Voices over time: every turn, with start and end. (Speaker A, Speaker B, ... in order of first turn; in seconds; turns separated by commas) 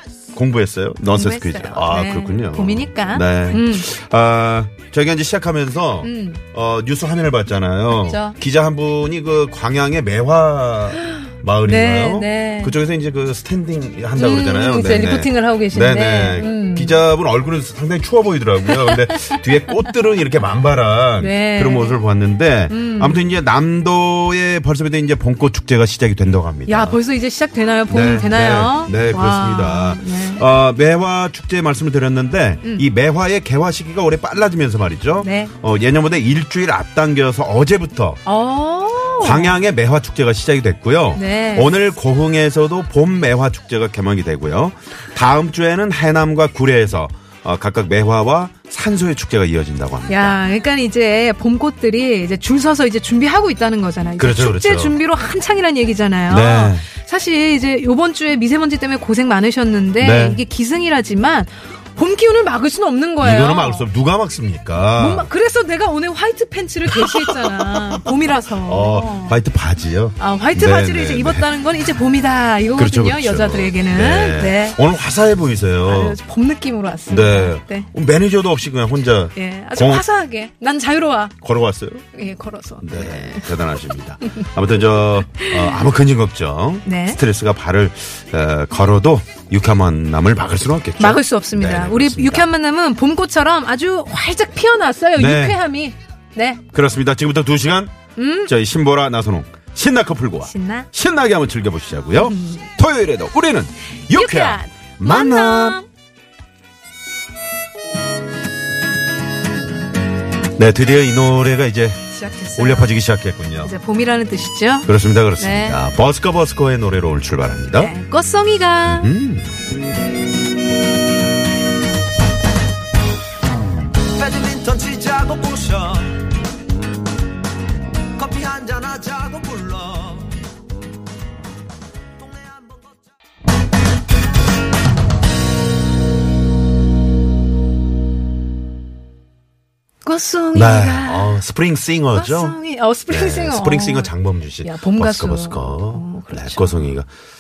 Speaker A: 0.3-27.0, Speaker B: 1.1-3.9, Speaker B: 6.0-6.4, Speaker B: 8.0-8.4, Speaker B: 11.0-12.8, Speaker B: 14.2-17.0, Speaker B: 18.7-19.4, Speaker B: 21.2-22.0, Speaker B: 22.7-23.2, Speaker B: 26.7-30.5, Speaker A: 27.9-38.2, Speaker B: 35.2-35.5, Speaker B: 38.3-39.6, Speaker A: 39.2-50.4, Speaker B: 41.2-41.7, Speaker B: 50.1-63.9, Speaker A: 54.2-55.0, Speaker A: 56.3-56.9, Speaker A: 60.0-60.4, Speaker A: 63.2-65.3, Speaker B: 65.0-69.4, Speaker A: 66.9-71.5, Speaker B: 70.2-74.8, Speaker A: 72.8-76.2, Speaker B: 75.8-77.9, Speaker A: 77.1-80.0, Speaker B: 79.3-81.4, Speaker A: 81.4-82.1, Speaker B: 82.1-83.5, Speaker A: 82.8-92.5, Speaker B: 85.3-85.8, Speaker B: 86.8-87.2, Speaker B: 91.0-96.6, Speaker A: 95.2-95.6, Speaker A: 96.7-105.8, Speaker B: 98.2-98.5, Speaker B: 100.4-100.9, Speaker B: 102.2-102.7, Speaker B: 104.1-105.9, Speaker A: 110.6-112.0, Speaker B: 112.1-113.0, Speaker A: 112.5-113.8, Speaker B: 113.6-115.8, Speaker A: 114.8-117.9, Speaker B: 117.8-119.1, Speaker A: 118.9-119.6, Speaker C: 124.1-126.2, Speaker C: 128.2-130.3, Speaker C: 132.2-133.0, Speaker B: 140.0-141.4, Speaker A: 140.5-142.6, Speaker B: 142.1-144.1, Speaker A: 143.1-147.1, Speaker B: 144.6-146.9